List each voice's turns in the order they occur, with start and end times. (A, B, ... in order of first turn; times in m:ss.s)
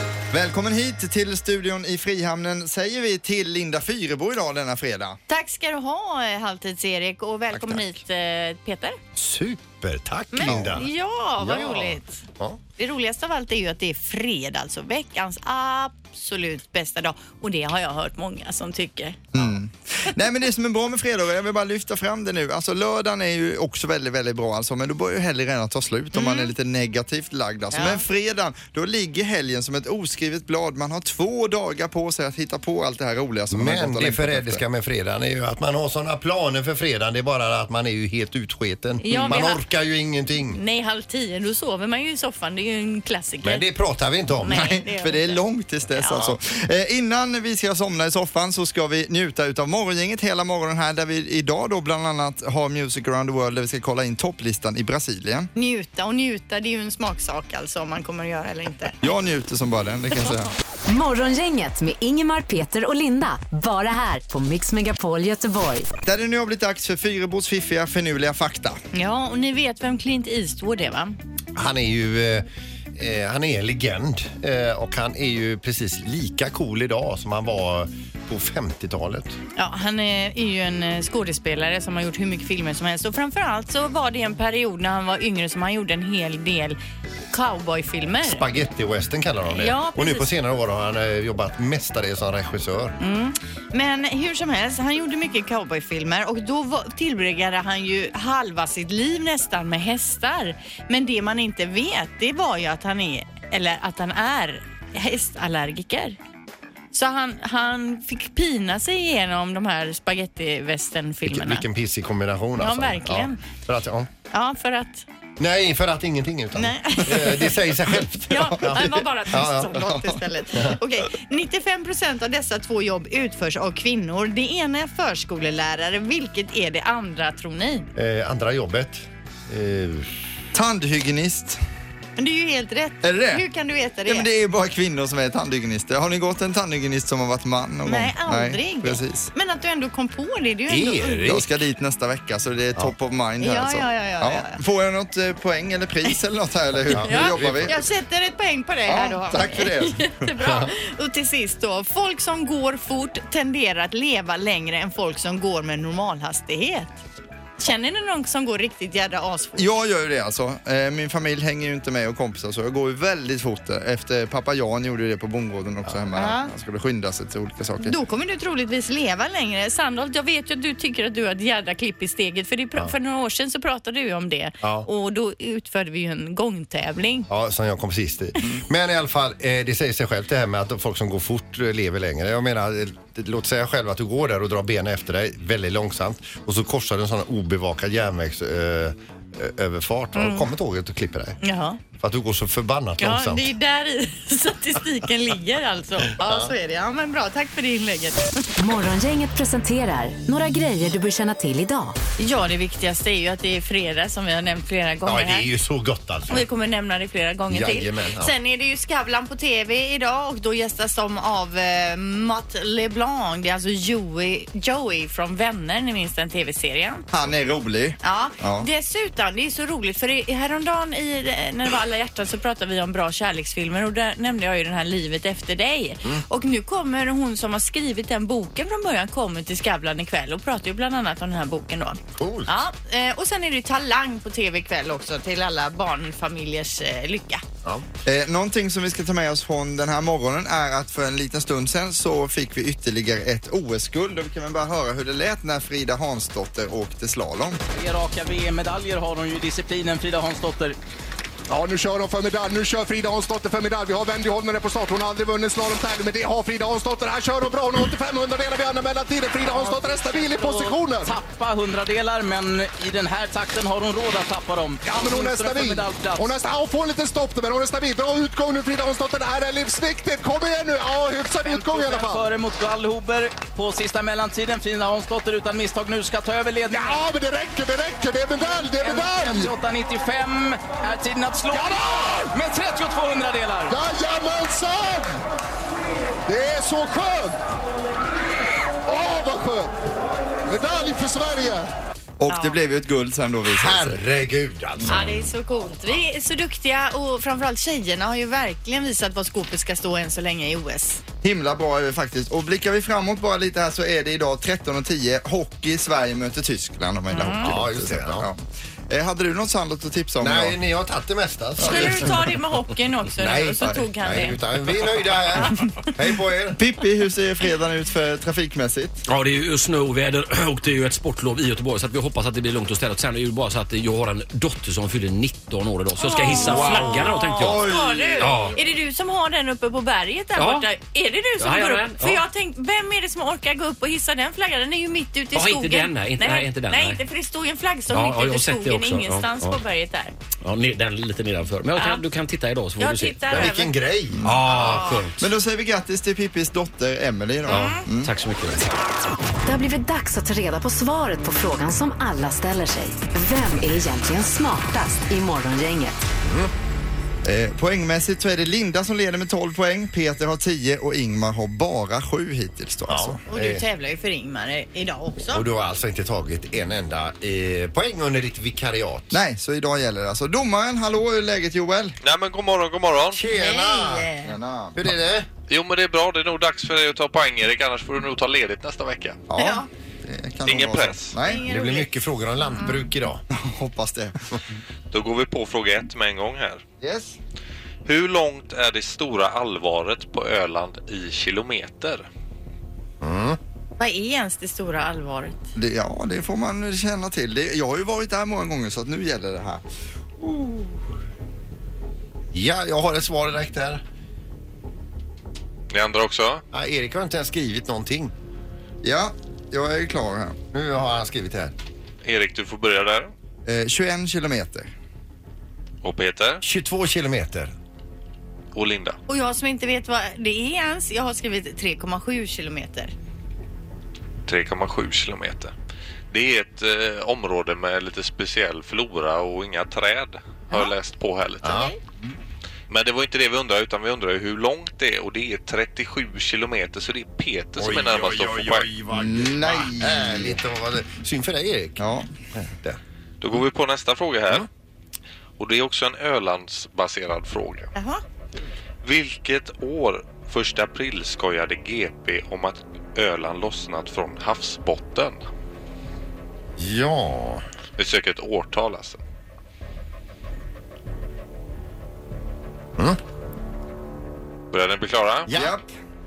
0:00.3-0:05.2 A
0:05.3-0:09.0 B
0:07.5-0:08.0 A
0:09.1-0:12.6 C
0:10.3-0:12.2 B
0:10.5-0:10.8 A
0:12.8-0:19.2 B
0:19.3-0:34.6 A
0:26.1-0:26.5 B
0:27.7-0:28.0 B
0:33.5-0:40.6 C
0:39.0-0:39.6 B
0:40.5-0:43.6 B
0:43.4-0:44.8 C
0:44.4-0:46.3 B
0:44.5-0:55.5 A
0:55.6-0:59.0 B
0:59.0-1:00.5 A
1:00.9-1:05.9 D
1:06.0-1:08.8 A
1:08.9-1:11.2 B
1:11.6-1:19.4 C
1:19.6-1:26.8 B
1:27.3-1:28.4 B
1:28.2-1:32.9 C
1:29.5-1:30.3 B
1:33.0-1:46.2 B
1:46.9-1:51.6 B
1:51.2-1:54.1 C
1:52.6-1:53.4 B
1:54.3-1:55.0 B
1:55.4-1:59.8 C
1:56.6-1:57.5 B
1:57.1-1:59.0 A
1:58.3-2:07.9 B
1:59.7-2:00.2 A
2:08.0-2:10.2 C
2:10.5-2:11.6 A
2:12.2-2:14.3 B
2:13.0-2:13.4 A
2:14.0-2:19.3 A
2:17.8-2:21.3 B
2:20.7-2:21.4 C
2:21.2-2:27.7 A
2:23.4-2:24.6 B
2:26.9-2:27.8 C
2:27.0-2:37.0 B
2:28.9-2:30.2 A
2:30.4-2:30.7 C
2:37.6-2:39.7 B
2:39.6-2:48.0 A
2:46.1-2:46.5 B
2:47.8-2:57.3 B
2:54.6-2:54.9 C
2:57.3-3:11.4 C
3:10.1-3:10.5 B
3:11.4-3:11.8 B
3:12.0-3:13.4 C
3:13.0-3:18.4 B
3:16.2-3:16.5 C
3:18.6-3:22.0 D
3:22.2-3:25.5 B
3:25.0-3:26.5 C
3:26.3-3:37.0 B
3:27.5-3:28.3 C
3:37.1-3:38.7 A
3:38.0-3:57.4 B
3:52.2-3:52.5 C
3:58.0-4:07.6 A
4:07.7-4:10.8 E
4:11.5-4:21.1 F
4:19.5-4:26.3 E
4:24.8-4:32.3 F
4:31.4-4:37.0 E
4:36.7-4:39.5 F
4:38.8-4:43.7 E
4:41.5-4:42.3 F
4:43.7-4:45.2 F
4:46.3-4:47.4 F
4:48.8-4:49.7 F
4:50.4-4:51.7 F
4:52.2-4:54.0 A
4:52.3-4:52.6 B
4:53.6-4:55.2 C
4:54.9-5:01.0 B
5:01.2-5:10.6 A
5:07.1-5:07.5 B
5:07.2-5:08.3 C
5:10.2-5:12.3 C
5:11.6-5:14.4 B
5:11.6-5:12.0 A
5:13.2-5:16.6 C
5:16.6-5:19.0 A
5:19.0-5:28.6 G
5:26.0-5:40.1 B
5:26.6-5:26.8 A
5:27.4-5:28.5 A
5:30.4-5:30.7 G
5:31.4-5:32.2 G
5:35.3-5:37.0 G
5:37.9-5:39.6 G
5:40.4-5:43.5 G
5:41.8-5:42.0 B
5:42.8-5:43.7 B
5:43.3-5:45.0 C
5:44.2-5:45.2 G
5:44.4-5:45.0 B
5:45.2-5:48.1 A
5:47.5-5:47.9 B
5:47.5-5:48.6 G
5:49.4-5:56.0 D
5:56.2-5:56.5 C
5:57.2-6:03.2 A
6:02.9-6:03.6 C
6:03.3-6:05.4 B
6:05.3-6:09.2 C
6:09.1-6:12.0 A
6:12.0-6:13.2 H
6:13.1-6:14.1 C
6:13.3-6:14.3 B
6:14.2-6:14.8 A
6:14.8-6:15.3 C
6:15.5-6:19.2 H
6:19.3-6:21.4 A
6:19.4-6:19.7 B
6:20.4-6:21.1 H
6:21.2-6:21.9 B
6:21.4-6:23.2 C
6:22.5-6:22.8 B
6:23.3-6:24.4 A
6:24.9-6:26.6 H
6:26.8-6:27.2 A
6:27.8-6:32.1 H
6:33.0-6:33.4 C
6:33.8-6:35.4 B
6:35.5-6:39.6 A
6:40.2-6:40.8 A
6:42.3-6:43.8 C
6:45.7-6:46.4 H
6:46.5-6:48.1 C
6:48.8-6:50.4 A
6:50.5-6:51.5 C
6:52.0-6:53.1 H
6:53.4-6:54.7 A
6:55.8-6:56.4 H
6:56.4-6:57.5 C
6:58.5-6:59.0 H
6:59.1-7:02.9 B
7:04.2-7:05.5 H
7:06.1-7:11.7 H
7:11.4-7:11.7 C
7:11.5-7:11.8 B
7:12.7-7:18.7 H
7:17.6-7:22.8 C
7:18.9-7:20.4 A
7:21.8-7:22.1 A
7:23.2-7:24.5 H
7:25.4-7:27.7 H
7:27.7-7:28.0 B
7:28.8-7:35.2 H
7:36.6-7:37.4 C
7:37.8-7:39.0 H
7:44.5-7:45.3 H
7:45.3-7:45.6 C
7:45.3-7:45.7 A